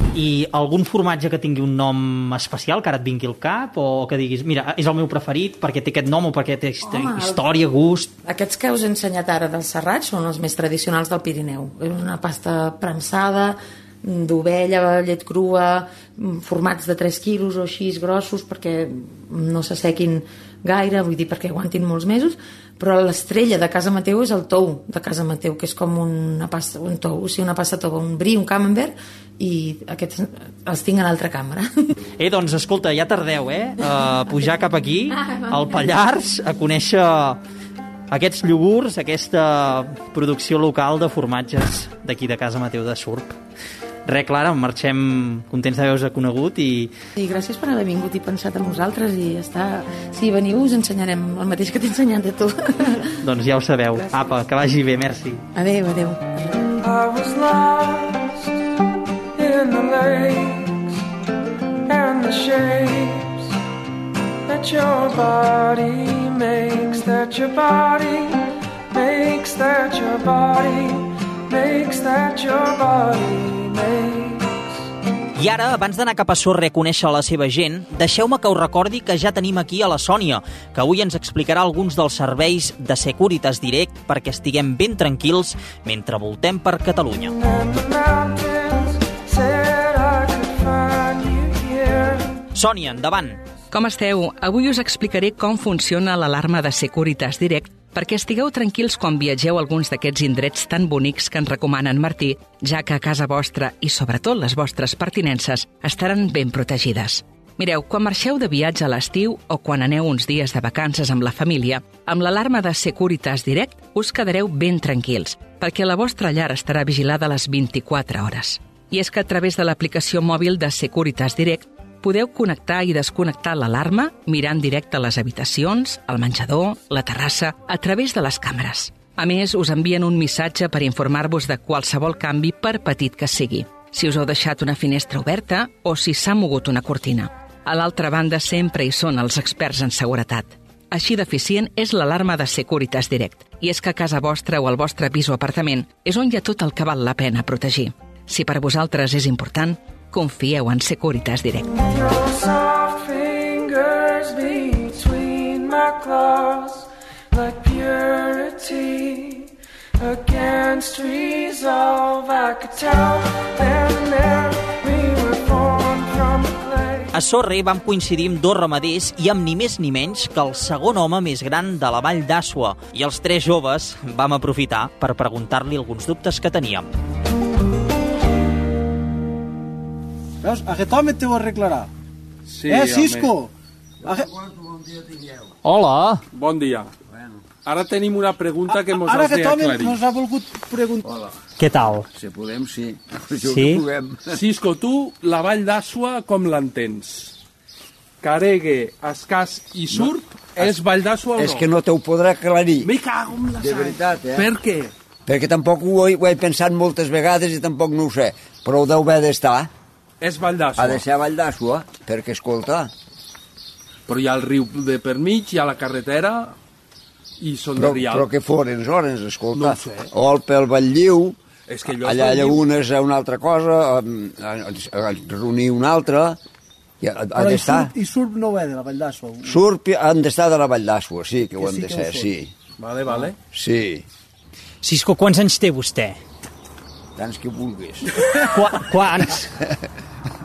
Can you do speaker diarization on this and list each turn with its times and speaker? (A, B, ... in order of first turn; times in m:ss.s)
0:00.1-0:08.1 A
0:06.8-0:07.4 B
0:08.2-0:31.9 B
0:32.2-0:37.4 A
0:38.1-0:43.4 A
0:44.1-0:46.9 A
0:47.2-0:53.2 B
0:53.2-0:55.4 A
0:55.6-0:56.7 B
0:56.8-0:58.6 C
0:59.4-1:01.0 C
1:01.9-1:03.5 C
1:04.5-1:14.7 C
1:15.4-1:27.4 A
1:27.4-1:32.4 C
1:32.5-1:33.4 A
1:33.7-2:31.8 D
2:31.8-2:47.1 C
2:47.1-2:56.9 A
3:00.4-3:01.9 E
3:02.5-3:03.3 F
3:02.7-3:03.5 E
3:04.0-3:05.5 G
3:04.0-3:04.3 E
3:05.6-3:06.2 A
3:06.3-3:06.9 F
3:07.1-3:07.4 G
3:07.6-3:10.0 F
3:08.7-3:11.0 E
3:11.0-3:11.3 G
3:11.6-3:12.1 A
3:12.1-3:14.4 G
3:13.4-3:13.8 A
3:14.3-3:17.3 F
3:18.2-3:21.6 F
3:19.9-3:20.8 G
3:21.4-3:22.9 G
3:22.8-3:24.9 F
3:23.6-3:24.5 G
3:25.3-3:29.7 G
3:30.2-3:31.0 F
3:30.8-3:32.9 G
3:34.1-3:36.5 F
3:37.4-3:38.3 F
3:37.8-3:41.4 G
3:39.5-3:40.1 F
3:41.7-3:42.6 F
3:41.9-3:46.4 G
3:47.0-3:47.9 G
3:47.4-3:49.6 E
3:49.4-3:52.5 G
3:51.5-3:52.3 E
3:52.8-3:53.4 F
3:53.1-3:54.0 G
3:54.8-3:56.2 A
3:57.1-3:58.1 G
3:58.4-3:59.5 A